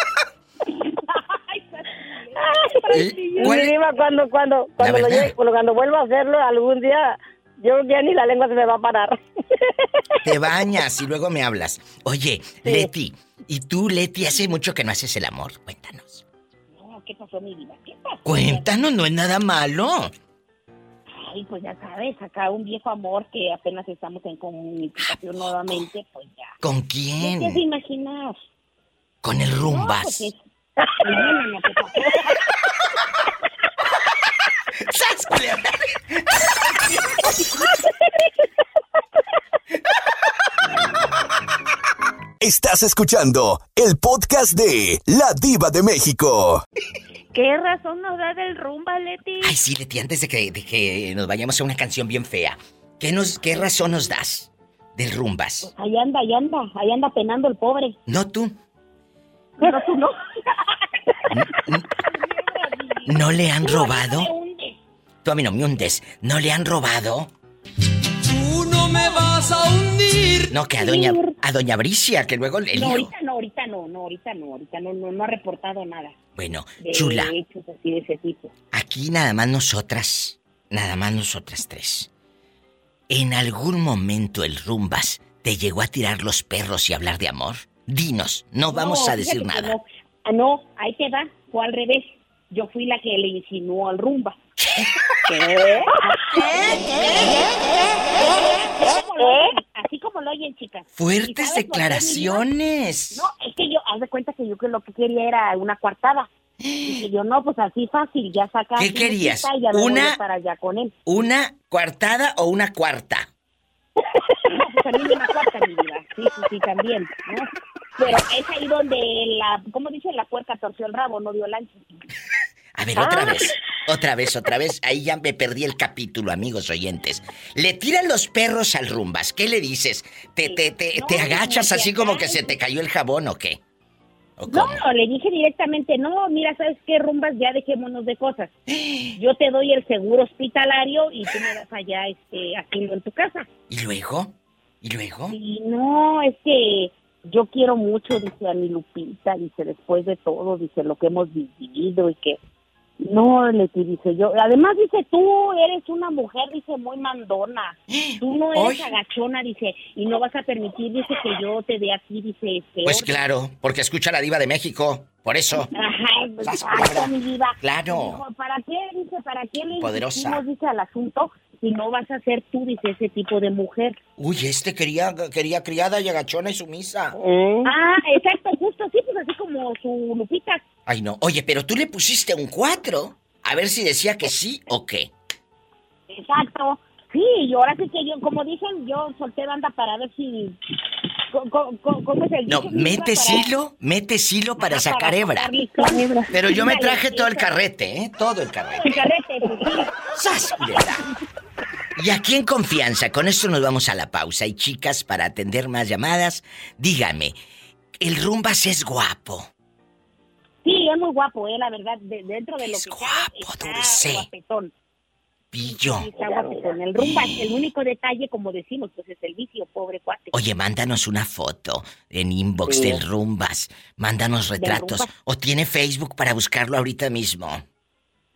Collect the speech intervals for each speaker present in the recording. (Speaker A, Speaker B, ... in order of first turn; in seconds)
Speaker A: 1.1-3.0, 16.7-18.7, 21.1-26.6, 27.2-28.4, 29.6-30.4, 31.0-32.3, 55.6-58.0, 59.6-60.1, 62.0-64.8, 70.8-71.3, 72.7-76.2, 76.8-78.5, 88.7-94.4, 95.4-97.4, 98.1-102.4, 103.1-106.3, 106.8-110.9, 114.5-122.0, 130.4-132.6, 134.5-138.5, 139.2-143.5, 145.3-152.4, 153.0-163.2, 165.7-174.0, 177.7-180.6, 186.1-190.6, 191.3-193.5, 194.6-197.5, 198.8-199.9, 210.6-214.7, 215.6-220.4, 224.6-225.1
Speaker B: 2.4-9.2, 12.6-12.9, 95.3-96.4, 99.2-99.5, 177.1-177.7, 216.2-216.6
Speaker C: 2.9-3.7, 4.8-5.3, 10.2-16.2, 18.2-20.1, 25.0-25.8, 26.6-27.6, 29.2-30.3, 34.8-36.2, 49.4-55.7, 58.1-58.6, 61.3-61.9, 63.0-64.3, 65.2-67.3, 70.5-73.1, 76.3-77.3, 78.7-82.1, 83.1-89.7, 94.6-94.9, 100.9-103.3, 106.6-107.0, 108.8-110.2, 111.0-113.3, 122.8-133.6, 134.4-134.8, 138.7-139.2, 143.7-145.3, 157.9-158.9, 162.8-165.7, 166.4-168.2, 169.7-170.4, 174.2-177.2, 180.8-185.1, 192.5-195.5, 196.3-199.1, 200.1-201.0, 201.9-207.4, 208.0-209.5, 212.6-214.3, 215.5-216.1, 217.0-217.5, 220.3-227.6
Speaker D: 42.4-46.6
Speaker E: 47.3-49.5
Speaker F: 68.2-70.5